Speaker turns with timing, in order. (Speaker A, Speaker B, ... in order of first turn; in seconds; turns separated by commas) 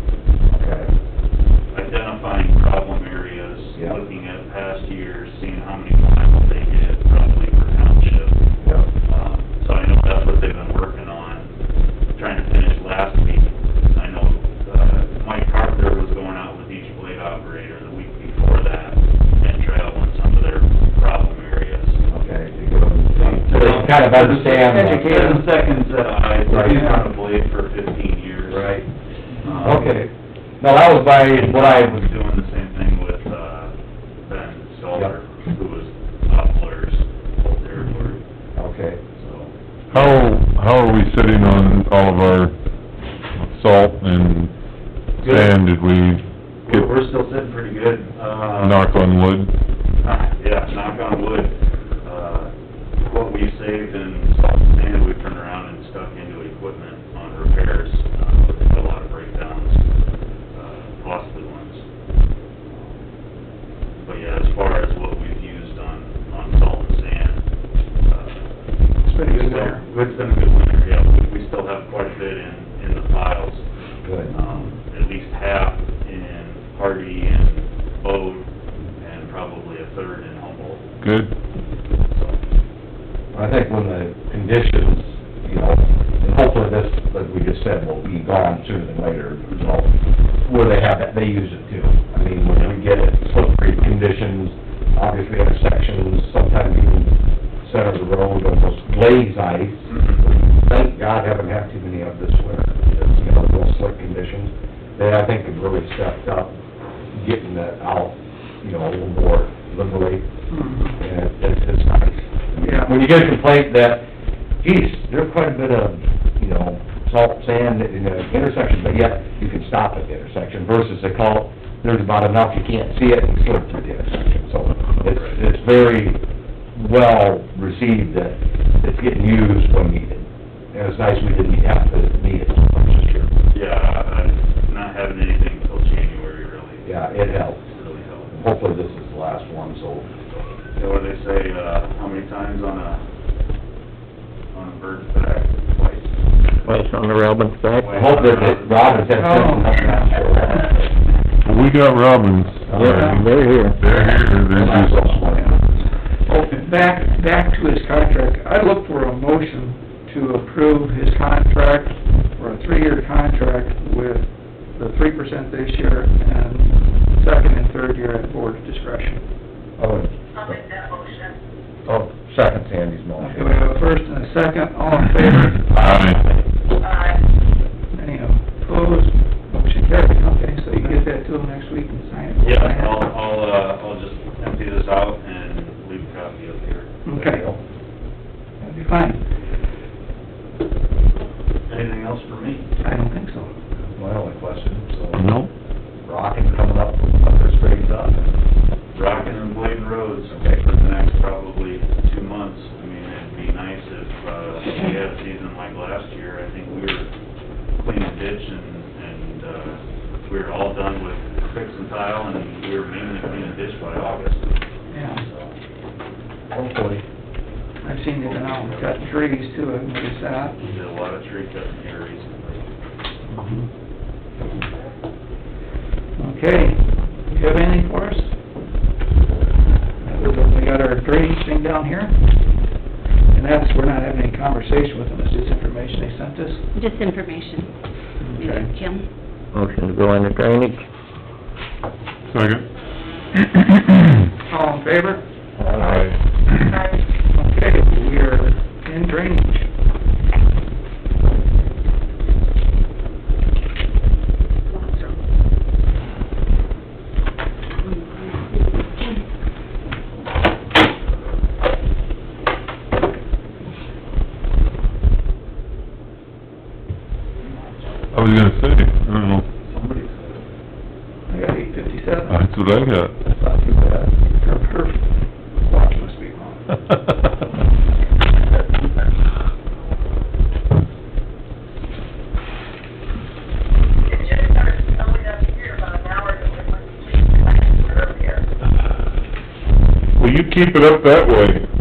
Speaker A: 0.5-0.9, Speaker B: 1.7-8.3, Speaker B: 9.1-11.5, Speaker B: 12.2-22.0, Speaker A: 22.1-25.4, Speaker B: 23.1-28.8, Speaker A: 26.5-26.9, Speaker A: 28.5-28.9, Speaker B: 29.4-30.0, Speaker A: 29.6-32.0, Speaker B: 31.0-33.7, Speaker B: 34.2-38.2, Speaker A: 38.5-39.0, Speaker B: 39.2-40.2, Speaker C: 39.9-42.5, Speaker C: 43.4-44.5, Speaker B: 45.2-45.5, Speaker C: 45.2-46.9, Speaker B: 46.6-48.9, Speaker C: 48.6-49.5, Speaker B: 50.0-52.5, Speaker B: 53.0-59.8, Speaker B: 60.5-61.8, Speaker B: 62.7-63.0, Speaker B: 64.0-67.4, Speaker B: 68.0-68.5, Speaker D: 69.0-69.8, Speaker B: 69.2-73.6, Speaker A: 74.0-74.3, Speaker D: 74.3-74.7, Speaker B: 74.3-78.4, Speaker B: 79.0-80.8, Speaker C: 81.0-81.3, Speaker B: 82.0-82.4, Speaker A: 83.3-106.5, Speaker B: 89.5-89.7, Speaker B: 99.8-100.2, Speaker A: 107.1-110.3, Speaker D: 110.5-111.0, Speaker A: 111.0-114.0, Speaker D: 112.6-112.9, Speaker A: 114.6-126.2, Speaker B: 125.1-125.4, Speaker A: 126.7-133.3, Speaker B: 133.5-138.3, Speaker A: 136.8-137.6, Speaker A: 138.3-140.1, Speaker B: 140.8-143.0, Speaker B: 144.5-146.8, Speaker E: 146.6-148.1, Speaker B: 147.8-149.2, Speaker A: 147.9-150.9, Speaker D: 149.1-150.2, Speaker C: 151.4-153.2, Speaker A: 152.7-153.2, Speaker E: 152.7-153.8, Speaker C: 153.8-155.2, Speaker A: 153.8-155.5, Speaker D: 155.2-169.2, Speaker A: 169.8-170.6, Speaker F: 170.4-171.3, Speaker A: 171.8-173.7, Speaker D: 173.2-175.8, Speaker C: 175.7-176.2, Speaker F: 176.8-177.2, Speaker D: 177.9-183.0, Speaker B: 182.4-187.0, Speaker D: 187.0-187.4, Speaker A: 187.1-187.6, Speaker D: 188.6-189.2, Speaker B: 191.7-192.7, Speaker D: 192.8-193.5, Speaker A: 193.9-195.3, Speaker C: 195.2-195.5, Speaker A: 196.0-198.2, Speaker B: 198.9-207.1, Speaker A: 200.3-200.6, Speaker B: 207.8-214.4, Speaker D: 214.9-215.2, Speaker B: 215.1-215.5, Speaker A: 216.5-217.0, Speaker D: 217.8-220.6, Speaker B: 218.2-218.9, Speaker B: 220.6-222.6, Speaker D: 223.3-223.7, Speaker D: 226.2-228.3, Speaker D: 230.0-232.5, Speaker D: 233.3-236.7, Speaker G: 236.7-237.7, Speaker D: 238.2-238.7, Speaker G: 238.4-239.0, Speaker E: 239.5-240.8, Speaker C: 242.3-242.6, Speaker D: 244.5-245.2, Speaker E: 245.6-245.9, Speaker C: 245.7-246.2, Speaker F: 246.7-246.9, Speaker D: 247.2-249.7, Speaker G: 257.8-258.6, Speaker B: 267.4-267.7, Speaker C: 268.1-269.4, Speaker B: 269.6-270.4, Speaker D: 271.3-272.4, Speaker C: 272.3-273.1, Speaker A: 273.4-274.1, Speaker D: 274.4-276.6, Speaker B: 284.1-284.4, Speaker F: 284.1-288.4, Speaker C: 290.2-291.6